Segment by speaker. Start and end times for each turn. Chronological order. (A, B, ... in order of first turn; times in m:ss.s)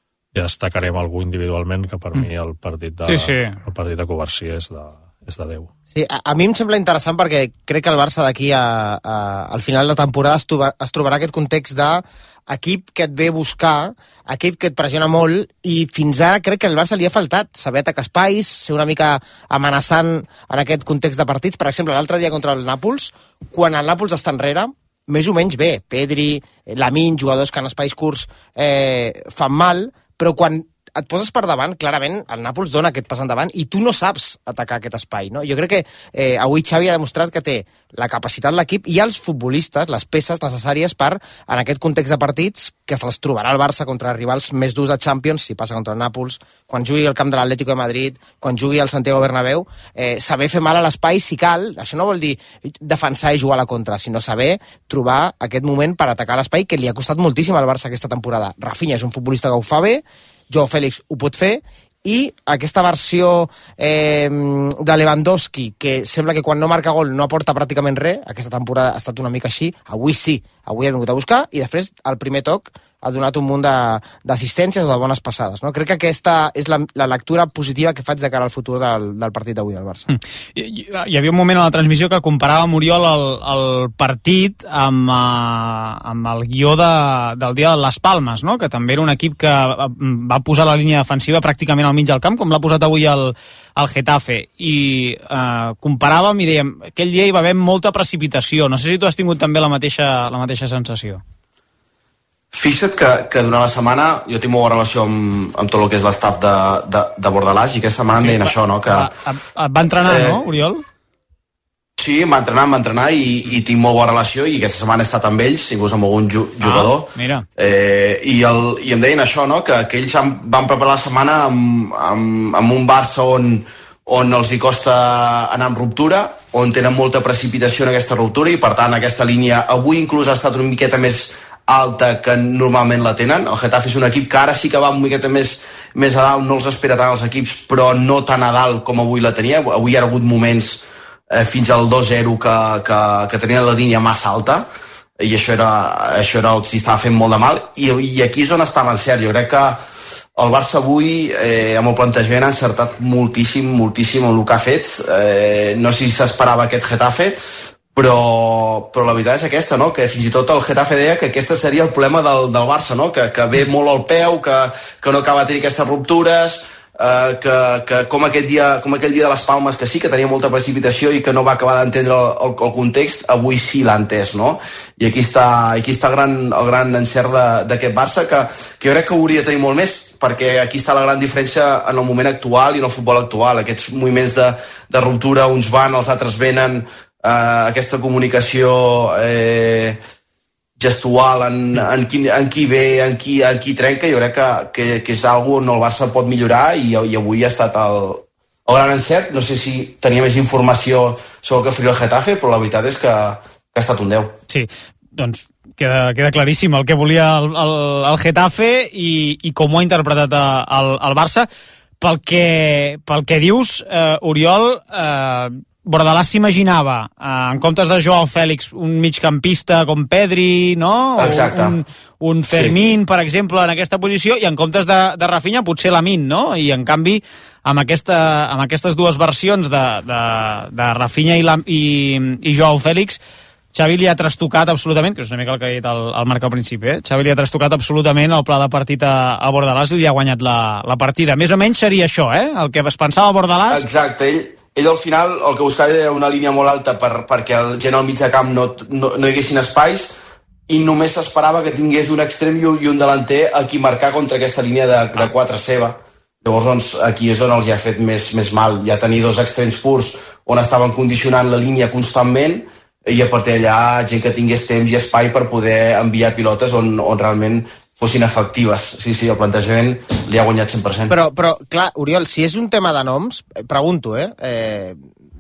0:00.3-0:05.7 A
0:03.1-0:03.6 B
0:05.9-1:20.1 C
1:20.1-1:41.2 B
1:42.5-1:49.1 D
1:48.1-1:50.8 B
1:50.0-1:50.4 D
1:52.0-2:24.7 D
1:56.6-1:57.5 B
2:25.2-2:29.8 D
2:30.4-2:37.4 D
2:37.9-3:10.0 D
3:10.8-3:24.3 D
3:24.5-3:31.5 B
3:32.0-3:53.2 B
3:41.2-3:41.8 D
3:42.5-3:42.8 D
3:53.7-4:03.8 B
4:03.7-4:10.2 D
4:10.7-4:31.1 D
4:31.1-4:35.1 C